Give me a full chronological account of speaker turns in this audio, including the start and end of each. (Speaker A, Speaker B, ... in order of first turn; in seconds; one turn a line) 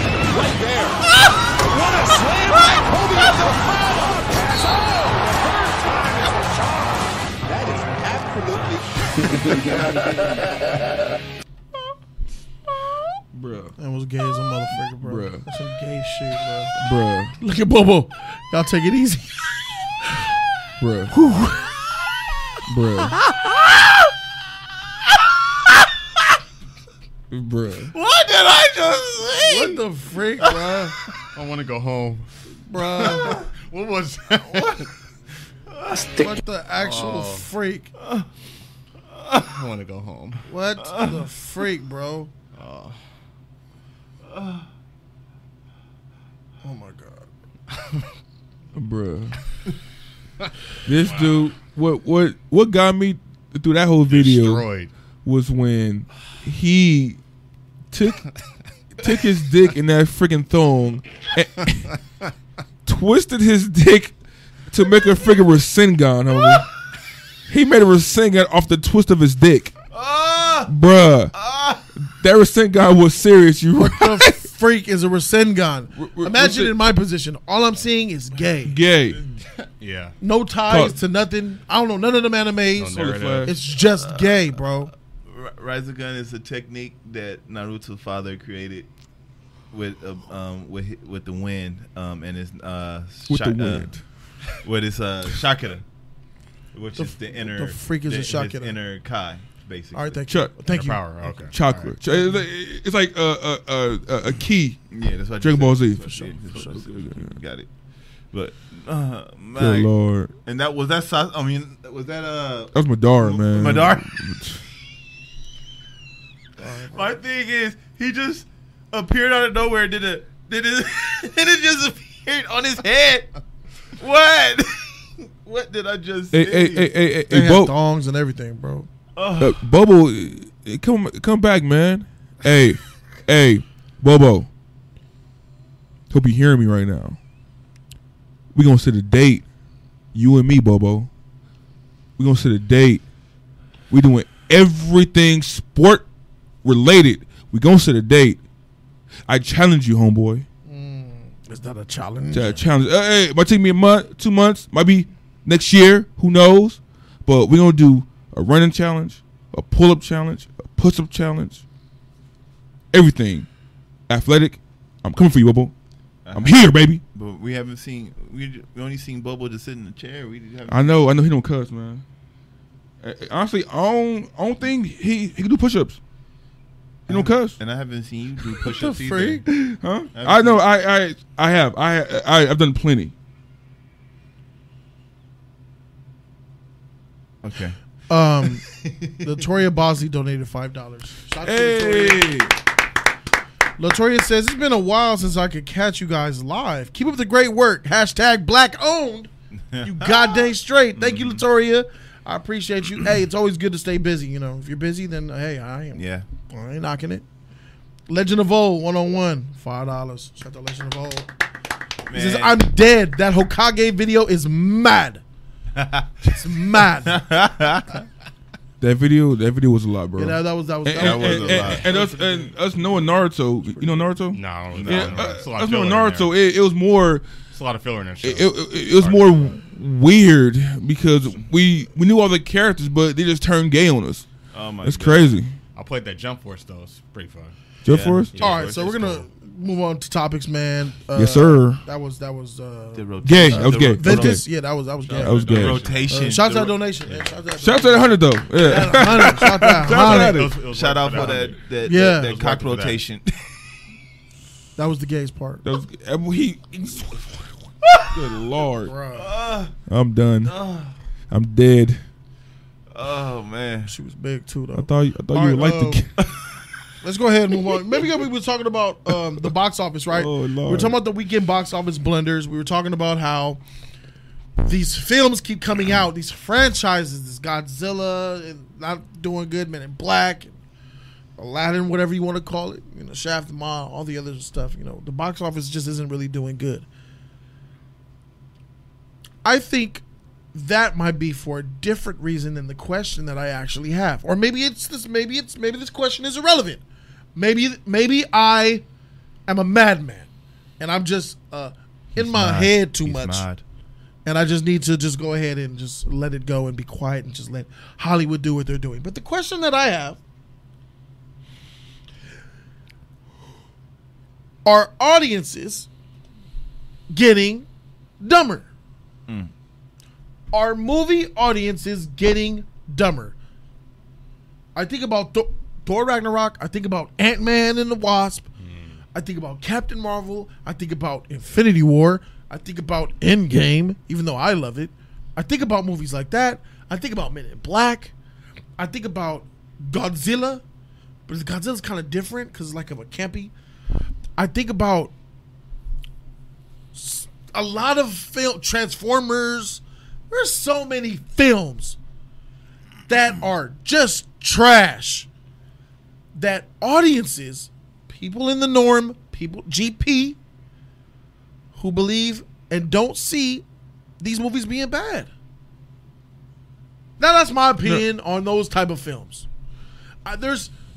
Speaker A: 0.3-1.0
Speaker A: 1.6-8.8
Speaker B: 13.3-13.7
Speaker C: 13.8-16.7
Speaker B: 15.0-15.4
Speaker B: 16.8-17.4
Speaker C: 17.4-19.6
Speaker B: 20.8-21.1
Speaker C: 21.1-21.7
Speaker B: 22.7-23.2
Speaker B: 27.3-27.9
Speaker D: 27.9-29.8
Speaker C: 29.4-30.9
Speaker E: 31.3-32.3
Speaker C: 32.7-33.4
Speaker D: 33.2-33.5
Speaker E: 33.2-34.9
Speaker C: 36.1-37.9
Speaker E: 36.8-37.4
Speaker E: 39.4-40.4
Speaker C: 40.5-42.3
Speaker D: 40.8-41.2
Speaker E: 42.5-43.0
Speaker D: 44.3-44.6
Speaker C: 46.6-47.3
Speaker B: 48.7-49.4
Speaker B: 50.8-54.6
Speaker E: 50.9-51.5
Speaker E: 54.1-54.9
Speaker B: 55.2-57.2
Speaker B: 57.9-58.3
Speaker B: 59.0-61.9
Speaker B: 62.9-64.1
Speaker B: 64.7-66.7
Speaker B: 67.5-69.7
Speaker D: 69.9-70.7
Speaker B: 70.7-71.3
Speaker D: 71.3-71.8
Speaker B: 72.0-74.4
Speaker C: 73.8-78.8
Speaker B: 76.0-76.9
Speaker B: 78.7-79.2
Speaker E: 79.8-80.2
Speaker C: 80.2-84.9
Speaker B: 80.7-81.0
Speaker E: 82.8-83.5
Speaker B: 82.9-83.5
Speaker D: 83.9-84.5
Speaker D: 85.2-88.9
Speaker D: 89.7-93.9
Speaker B: 93.3-94.0
Speaker D: 94.5-95.8
Speaker D: 96.7-100.2
Speaker C: 97.0-98.8
Speaker C: 99.9-101.4
Speaker B: 100.3-100.5
Speaker E: 100.7-101.9
Speaker B: 101.5-104.8
Speaker C: 102.1-102.4
Speaker D: 104.9-107.7
Speaker B: 105.4-107.4
Speaker C: 106.0-106.9
Speaker D: 108.3-109.9
Speaker B: 109.5-110.3
Speaker D: 110.4-114.1
Speaker B: 112.7-114.6
Speaker C: 116.6-117.2
Speaker D: 116.9-123.4
Speaker D: 124.0-126.9
Speaker B: 126.3-127.7
Speaker C: 127.3-128.9
Speaker D: 129.2-129.6
Speaker B: 129.4-134.5
Speaker B: 136.1-137.2
Speaker B: 138.5-139.4
Speaker B: 140.1-141.1
Speaker B: 142.2-143.0
Speaker B: 143.9-146.1
Speaker B: 146.6-148.4
Speaker B: 149.3-150.4
Speaker C: 150.6-152.6
Speaker B: 152.3-161.6
Speaker B: 162.9-163.5
Speaker B: 164.1-165.7
Speaker D: 166.2-170.8
Speaker B: 166.3-167.0
Speaker B: 170.7-172.0
Speaker B: 173.0-176.0
Speaker B: 177.1-177.6
Speaker D: 177.1-179.5
Speaker C: 178.7-179.4
Speaker B: 179.5-183.1
Speaker D: 180.1-180.6
Speaker D: 187.4-187.8
Speaker C: 188.1-188.7
Speaker D: 188.8-189.2
Speaker C: 189.2-192.3
Speaker B: 191.4-192.5
Speaker C: 193.8-199.3
Speaker D: 199.7-201.4
Speaker C: 199.8-207.2
Speaker D: 205.9-206.2
Speaker C: 208.1-211.3
Speaker D: 212.1-212.7
Speaker C: 212.1-215.2
Speaker D: 215.7-216.3
Speaker C: 216.2-217.2
Speaker D: 217.1-218.0
Speaker B: 218.8-227.2
Speaker C: 220.2-224.1
Speaker D: 221.0-221.9
Speaker E: 224.3-226.3
Speaker D: 224.7-225.3
Speaker E: 227.5-229.5
Speaker B: 228.2-234.3
Speaker D: 234.5-235.4
Speaker B: 234.8-235.6
Speaker E: 235.7-237.5
Speaker B: 237.8-238.3
Speaker D: 237.8-239.3
Speaker E: 238.3-238.7
Speaker C: 238.4-245.4
Speaker B: 241.1-241.8
Speaker D: 242.9-244.4
Speaker B: 243.2-244.4
Speaker E: 245.0-246.1
Speaker B: 245.2-245.8
Speaker D: 245.5-246.8
Speaker C: 246.1-250.4
Speaker E: 247.0-247.4
Speaker B: 247.6-250.6
Speaker E: 249.8-253.0
Speaker D: 250.6-253.5
Speaker C: 251.8-252.3
Speaker C: 254.8-255.6
Speaker B: 255.6-257.5
Speaker D: 257.9-258.1
Speaker B: 258.1-258.9
Speaker C: 258.8-259.3
Speaker D: 259.1-259.7
Speaker B: 259.9-260.5
Speaker D: 260.4-260.9
Speaker B: 261.3-262.0
Speaker D: 262.9-263.9
Speaker C: 263.9-266.0
Speaker B: 264.7-266.1
Speaker C: 267.0-273.6
Speaker B: 270.1-271.0
Speaker C: 274.6-280.5
Speaker C: 281.4-286.9
Speaker C: 289.4-290.0
Speaker C: 290.5-296.8
Speaker C: 297.3-298.8
Speaker C: 299.5-300.3
Speaker C: 300.8-303.4
Speaker D: 302.1-303.6
Speaker C: 304.2-310.2
Speaker C: 314.6-315.9
Speaker C: 317.1-317.7
Speaker C: 318.2-318.7
Speaker C: 320.5-323.3
Speaker C: 324.7-328.4
Speaker E: 328.6-328.9
Speaker C: 329.1-338.1
Speaker C: 338.8-340.6
Speaker C: 341.3-343.5
Speaker C: 344.4-345.1
Speaker C: 346.9-352.0
Speaker C: 353.1-355.3
Speaker C: 356.3-360.4
Speaker C: 361.7-363.6
Speaker C: 364.2-365.3
Speaker C: 367.2-369.4
Speaker C: 370.2-370.7